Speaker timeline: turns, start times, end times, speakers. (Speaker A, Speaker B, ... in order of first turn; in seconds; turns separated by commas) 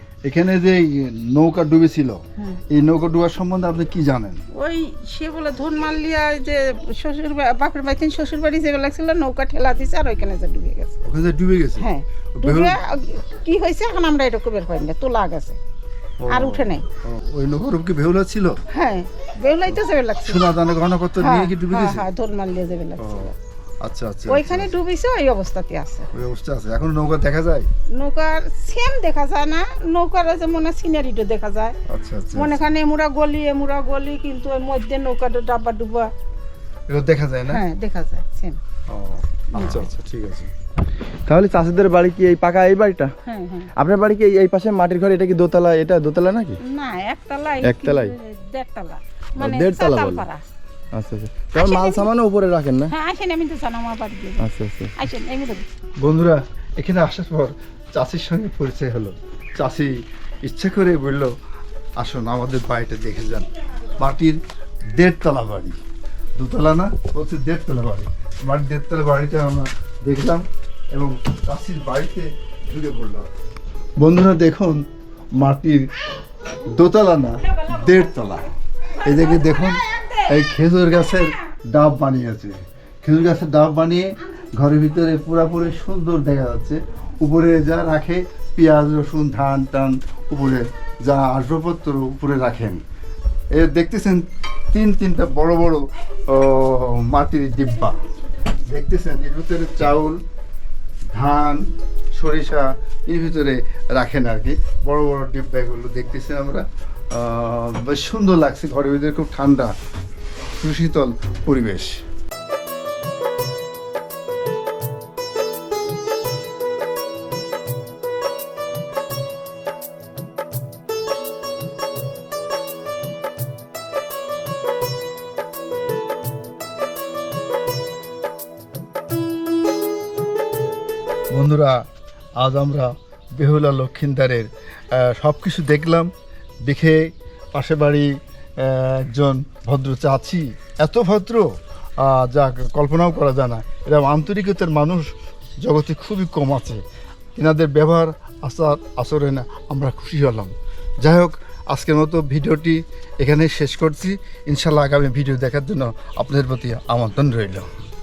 Speaker A: 0.2-4.4, Speaker B: 4.5-10.9, Speaker A: 11.0-12.8, Speaker B: 11.8-15.6, Speaker A: 16.2-18.6, Speaker B: 16.3-16.9, Speaker B: 18.8-20.4, Speaker A: 19.7-22.1, Speaker B: 21.2-23.2, Speaker A: 23.0-24.8, Speaker B: 24.3-26.1, Speaker A: 26.1-27.7, Speaker B: 27.9-31.8, Speaker A: 31.9-32.6, Speaker B: 32.3-36.1, Speaker A: 36.9-37.6, Speaker B: 37.5-38.6, Speaker A: 38.9-40.5, Speaker B: 39.5-39.9, Speaker C: 41.3-43.1, Speaker B: 43.3-43.7, Speaker C: 43.8-46.6, Speaker B: 46.7-50.4, Speaker C: 47.7-48.1, Speaker C: 49.4-50.3, Speaker C: 51.0-52.9, Speaker B: 51.5-52.1, Speaker B: 52.9-54.4, Speaker C: 54.4-55.0, Speaker B: 55.0-55.6, Speaker A: 56.0-59.9, Speaker A: 60.5-61.3, Speaker A: 62.0-63.5, Speaker A: 64.0-64.4, Speaker A: 65.0-65.8, Speaker A: 66.4-73.3, Speaker A: 74.0-74.8, Speaker A: 75.4-75.8, Speaker A: 76.7-78.5, Speaker A: 79.0-92.8, Speaker A: 93.5-98.0, Speaker A: 98.7-100.2, Speaker A: 101.1-101.6, Speaker A: 102.1-109.7, Speaker A: 110.6-112.0, Speaker A: 131.3-131.8, Speaker A: 132.4-136.1, Speaker A: 136.6-141.5, Speaker A: 142.0-145.1, Speaker A: 145.6-146.8, Speaker A: 147.3-150.5, Speaker A: 151.0-157.7